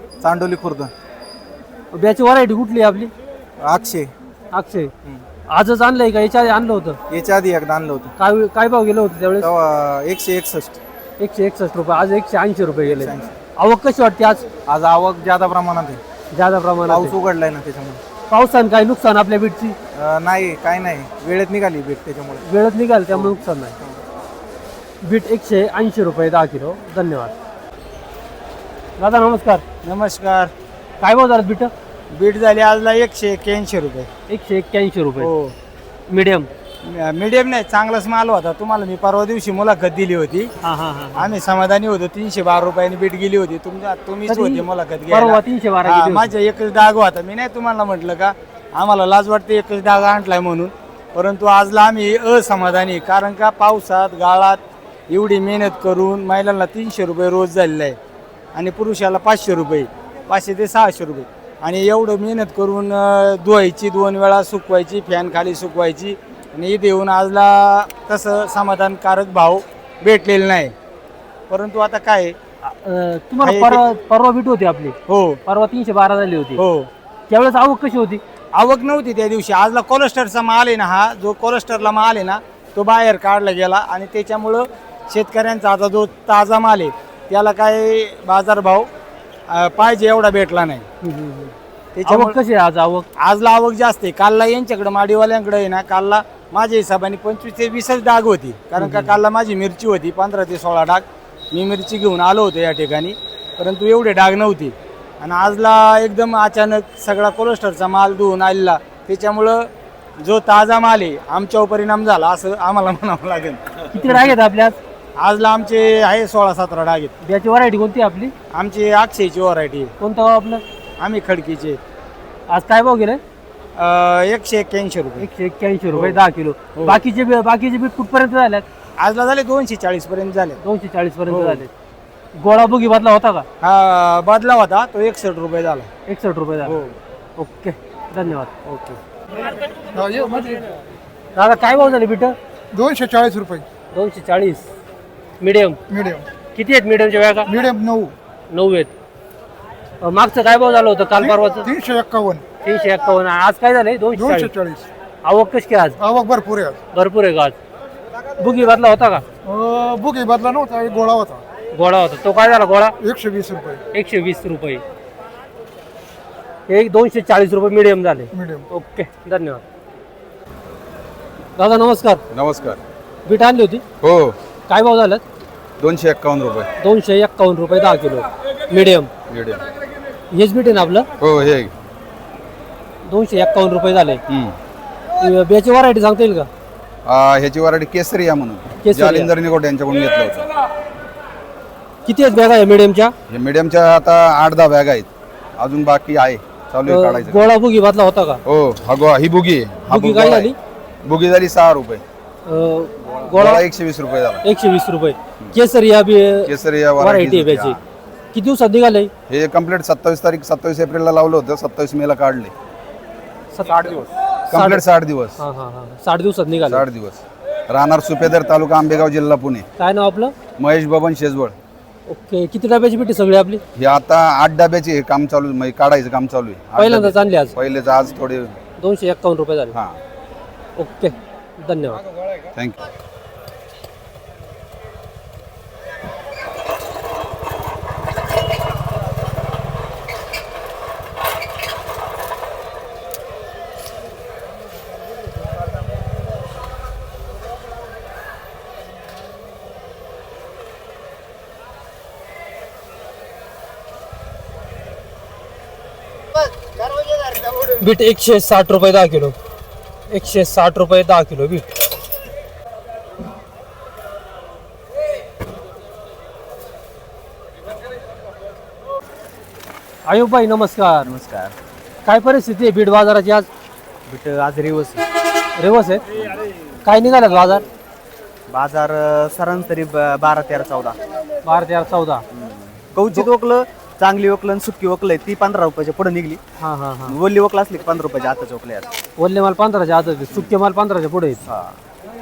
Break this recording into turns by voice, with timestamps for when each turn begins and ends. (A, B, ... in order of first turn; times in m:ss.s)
0:00.2-0:00.9 A
0:01.9-0:03.1 B
0:03.6-0:04.1 A
0:04.5-0:04.9 B
0:05.5-0:07.0 B
0:07.1-0:08.1 A
0:08.2-0:09.5 B
0:09.4-0:10.8 A
0:11.2-0:14.4 B
0:13.0-0:13.3 A
0:14.7-0:16.0 A
0:16.3-0:17.2 B
0:16.9-0:18.0 A
0:18.3-0:19.8 B
0:20.0-0:22.4 A
0:22.4-0:23.8 B
0:25.0-0:27.4 B
0:29.0-0:29.6 B
0:29.8-0:30.5 C
0:31.0-0:31.7 B
0:32.1-0:34.1 C
0:34.3-0:35.3 B
0:35.2-0:35.6 C
0:36.1-0:36.5 B
0:36.8-0:40.5 C
0:40.6-0:41.3 B
0:41.2-0:58.0 C
0:44.3-0:46.3 B
0:58.5-1:10.7 C
1:11.5-1:12.4 C
1:12.6-1:15.0 B
1:13.4-1:13.8 C
1:15.1-1:15.4 C
1:15.5-1:16.6 B
1:16.6-1:16.9 C
1:17.3-1:18.2 B
1:18.6-1:28.9 C
1:29.5-1:30.9 C
1:31.0-1:33.1 B
1:32.0-1:32.4 C
1:33.2-1:49.7 C
1:38.8-1:39.2 B
1:50.2-1:54.2 C
1:53.9-1:54.8 B
1:55.2-1:57.2 C
1:57.2-1:58.3 B
1:58.5-1:59.9 C
2:00.0-2:00.6 B
2:01.0-2:01.8 C
2:02.5-2:03.2 B
2:03.8-2:05.3 C
2:05.2-2:08.6 B
2:05.9-2:06.2 C
2:09.0-2:10.6 C
2:10.6-2:11.7 B
2:11.3-2:11.6 C
2:12.4-2:13.5 B
2:13.6-2:15.9 C
2:16.1-2:16.8 B
2:16.7-2:16.9 C
2:17.4-2:18.5 B
2:18.7-2:19.0 C
2:19.9-2:20.6 D
2:21.4-2:22.4 B
2:22.7-2:23.7 D
2:23.9-2:24.7 B
2:25.4-2:25.8 B
2:25.9-2:26.2 D
2:26.6-2:27.5 B
2:27.5-2:28.2 D
2:28.5-2:28.9 B
2:30.0-2:31.7 B
2:31.2-2:32.4 D
2:32.6-2:34.5 B
2:34.1-2:34.9 D
2:35.2-2:36.0 B
2:36.0-2:36.8 D
2:36.9-2:37.6 B
2:38.4-2:39.2 B
2:39.4-2:41.4 D
2:41.7-2:43.0 B
2:43.0-2:43.8 D
2:43.9-2:44.8 B
2:46.7-2:49.6 B
2:48.3-2:48.7 D
2:51.6-2:52.2 B
2:52.4-2:52.8 E
2:53.2-2:53.8 B
2:54.0-2:54.4 E
2:54.7-2:55.2 B
2:55.8-2:56.7 E
2:56.8-2:59.1 B
2:59.3-2:59.6 E
3:00.3-3:01.1 B
3:01.2-3:01.7 E
3:01.3-3:01.7 A
3:03.0-3:04.2 B
3:05.2-3:06.5 B
3:07.1-3:10.5 E
3:08.8-3:09.3 B
3:09.0-3:09.6 A
3:12.1-3:13.1 B
3:13.3-3:15.1 E
3:15.6-3:17.3 E
3:16.9-3:18.4 B
3:17.0-3:17.4 A
3:18.5-3:20.5 E
3:19.9-3:20.6 B
3:21.1-3:22.0 E
3:22.5-3:23.7 B
3:23.4-3:24.2 A
3:23.6-3:24.4 E
3:24.4-3:27.8 B
3:26.5-3:27.5 A
3:26.6-3:27.7 E
3:28.3-3:29.1 B
3:29.3-3:32.5 E
3:33.5-3:34.8 B
3:34.6-3:35.4 E
3:34.6-3:35.1 A
3:35.4-3:36.8 B
3:36.8-3:39.6 E
3:39.8-3:40.3 B
3:40.6-3:41.5 E
3:42.1-3:43.6 B
3:43.8-3:48.6 E
3:46.8-3:47.5 B
3:48.8-3:49.8 B
3:50.8-3:52.0 B
4:17.6-4:19.4 B
4:20.1-4:21.7 B
4:30.1-4:31.1 B
4:31.0-4:31.5 F
4:32.0-4:33.5 B
4:34.1-4:35.0 F
4:35.6-4:36.0 B
4:36.1-4:36.4 F
4:36.8-4:37.6 B
4:38.5-4:41.0 F
4:41.4-4:42.2 B
4:42.3-4:46.4 F
4:46.6-4:47.2 B
4:47.1-4:48.9 F
4:49.2-4:51.4 B
4:51.4-4:51.8 F